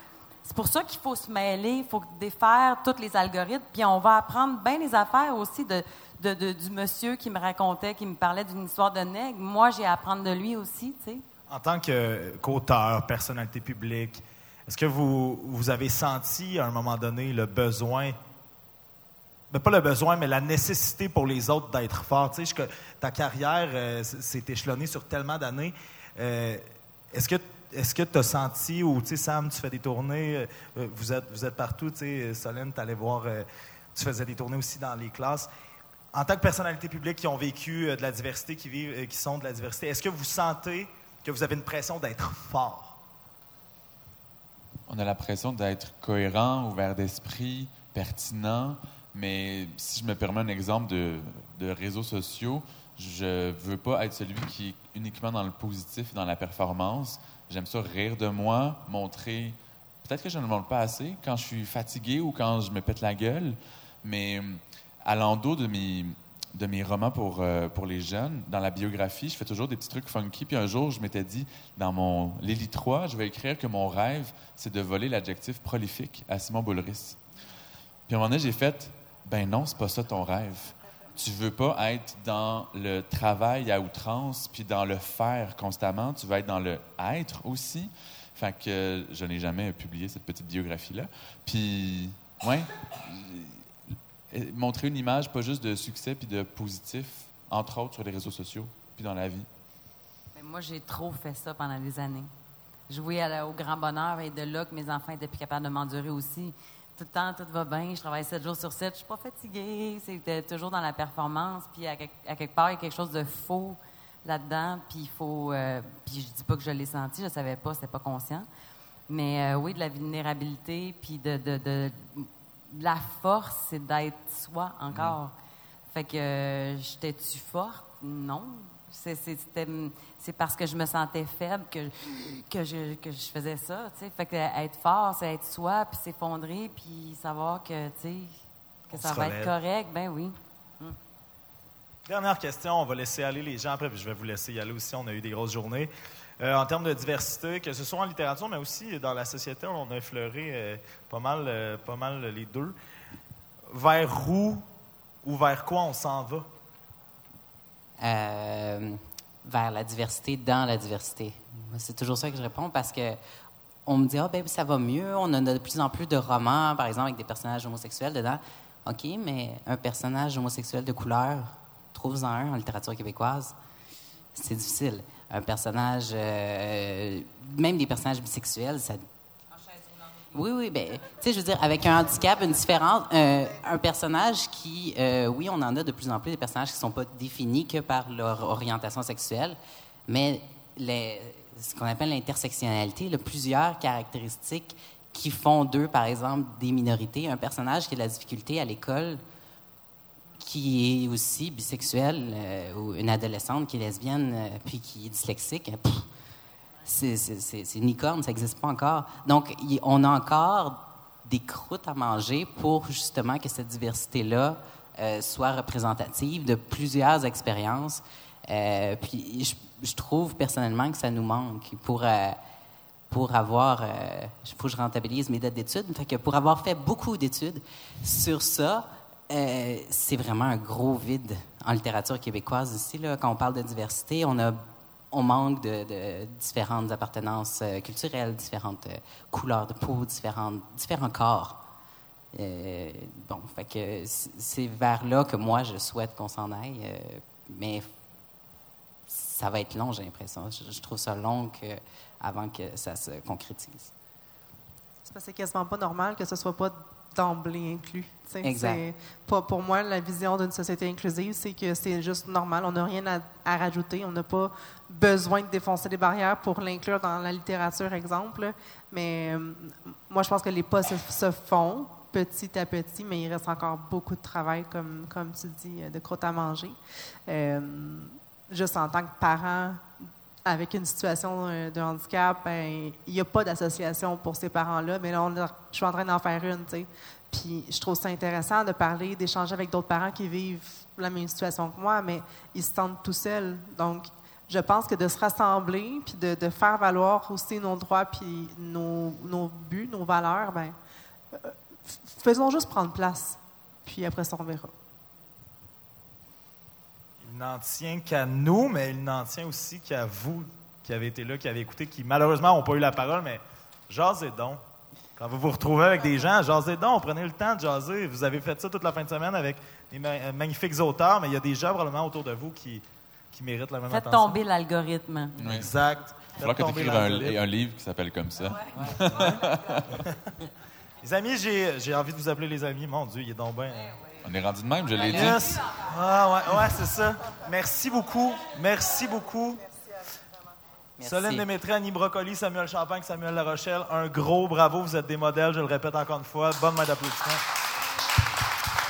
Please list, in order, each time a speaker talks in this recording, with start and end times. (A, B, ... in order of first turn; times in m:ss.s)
0:00.4-0:11.2 A
0:11.5-0:18.2 B
0:19.5-0:35.5 B
0:36.1-0:43.0 B
0:44.9-1:17.2 C
1:18.1-1:33.6 C
1:34.3-1:39.5 C
1:40.3-1:42.3 A
1:42.9-1:58.5 A
1:59.1-2:05.3 A
2:04.9-2:05.2 C
2:05.9-2:18.3 A
2:18.9-2:19.5 B
2:18.9-2:21.0 A
2:22.0-2:32.7 B
2:33.7-2:34.6 B
2:35.2-2:36.5 B
2:38.0-2:43.2 D
2:43.8-2:53.5 D
2:54.3-2:59.0 D
3:00.3-3:19.2 D
3:20.4-3:26.1 D
3:26.8-3:42.4 D
3:43.1-3:54.6 D
3:55.1-4:01.6 D
4:02.3-4:07.8 D
4:09.1-4:13.9 D
4:15.0-4:39.9 E
4:18.4-4:18.8 D
4:40.4-5:00.7 E
5:01.3-5:04.7 E
5:07.2-5:14.6 B
5:15.2-5:24.4 B
5:23.9-5:25.4 A
5:25.4-5:25.7 C
5:25.4-5:27.4 B
5:26.4-5:30.1 C
5:31.0-5:34.0 B
5:34.2-5:35.6 C
5:35.1-5:39.6 B
5:41.0-5:41.4 D
5:41.0-5:47.4 B